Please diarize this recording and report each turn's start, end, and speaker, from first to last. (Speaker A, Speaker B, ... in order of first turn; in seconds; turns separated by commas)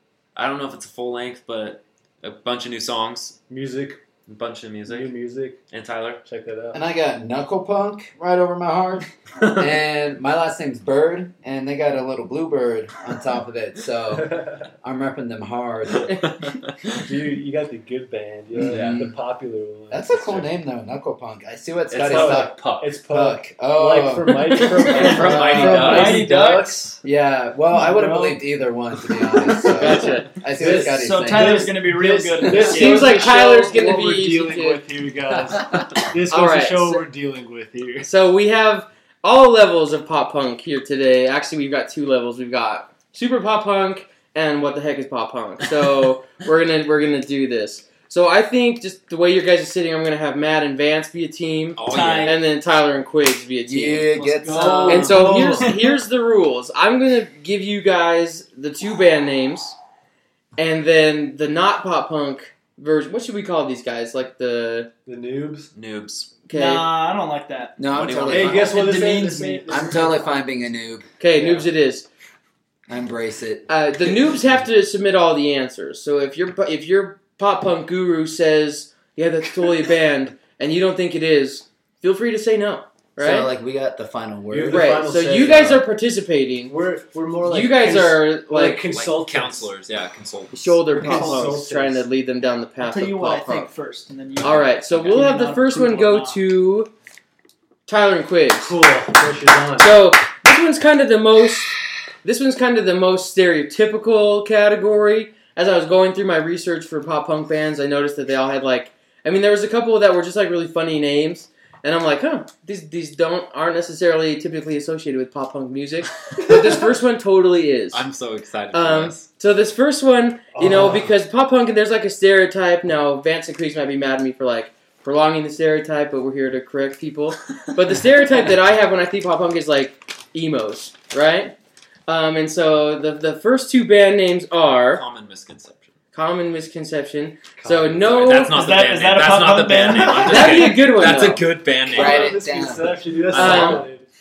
Speaker A: 0.3-3.4, Speaker B: 3.5-4.0, Speaker A: 4.3-5.1, Speaker B: 4.9-5.6, Speaker A: 5.7-6.2, Speaker B: 6.2-6.8, Speaker C: 6.7-16.3, Speaker B: 14.1-14.7, Speaker A: 16.1-17.0, Speaker B: 16.9-20.5, Speaker C: 18.6-19.1, Speaker A: 18.7-19.1, Speaker C: 19.9-26.2, Speaker A: 21.9-22.9, Speaker B: 22.0-26.9, Speaker A: 24.9-26.2, Speaker D: 25.2-27.0, Speaker C: 27.0-31.7, Speaker D: 27.7-28.4, Speaker E: 29.7-30.4, Speaker B: 30.5-38.1, Speaker D: 30.6-33.2, Speaker E: 32.6-34.8, Speaker E: 36.3-37.0, Speaker E: 38.0-54.2, Speaker A: 51.8-52.4, Speaker D: 51.9-52.4, Speaker C: 53.7-55.7, Speaker D: 54.1-55.9, Speaker B: 54.6-55.7, Speaker E: 54.9-59.8, Speaker E: 60.6-64.9, Speaker B: 65.0-65.7, Speaker A: 65.7-66.3, Speaker E: 66.5-66.9, Speaker D: 66.5-67.9, Speaker C: 67.8-68.8, Speaker A: 67.8-68.8, Speaker B: 68.2-70.4, Speaker D: 68.5-69.9, Speaker C: 69.7-71.0, Speaker E: 71.2-72.1, Speaker B: 71.4-71.6, Speaker C: 72.9-73.7, Speaker E: 73.7-83.5, Speaker C: 83.2-85.1, Speaker B: 84.5-85.8, Speaker E: 84.7-86.7, Speaker B: 86.7-89.7, Speaker E: 87.4-88.8, Speaker A: 88.8-90.8, Speaker E: 90.5-93.7, Speaker B: 90.9-92.0, Speaker D: 91.0-91.5, Speaker D: 92.8-96.4, Speaker A: 94.4-95.2, Speaker E: 94.4-96.9, Speaker E: 97.9-98.7, Speaker B: 98.6-100.0, Speaker E: 99.8-118.0, Speaker A: 117.9-119.2, Speaker E: 118.7-131.5, Speaker B: 120.5-121.1, Speaker E: 132.1-135.0, Speaker A: 134.9-135.9, Speaker E: 136.1-138.6, Speaker B: 137.6-138.1, Speaker A: 138.0-142.4, Speaker D: 138.4-140.7, Speaker E: 140.0-141.4, Speaker C: 141.8-143.1, Speaker B: 141.9-144.0, Speaker A: 143.3-143.8, Speaker E: 143.3-143.8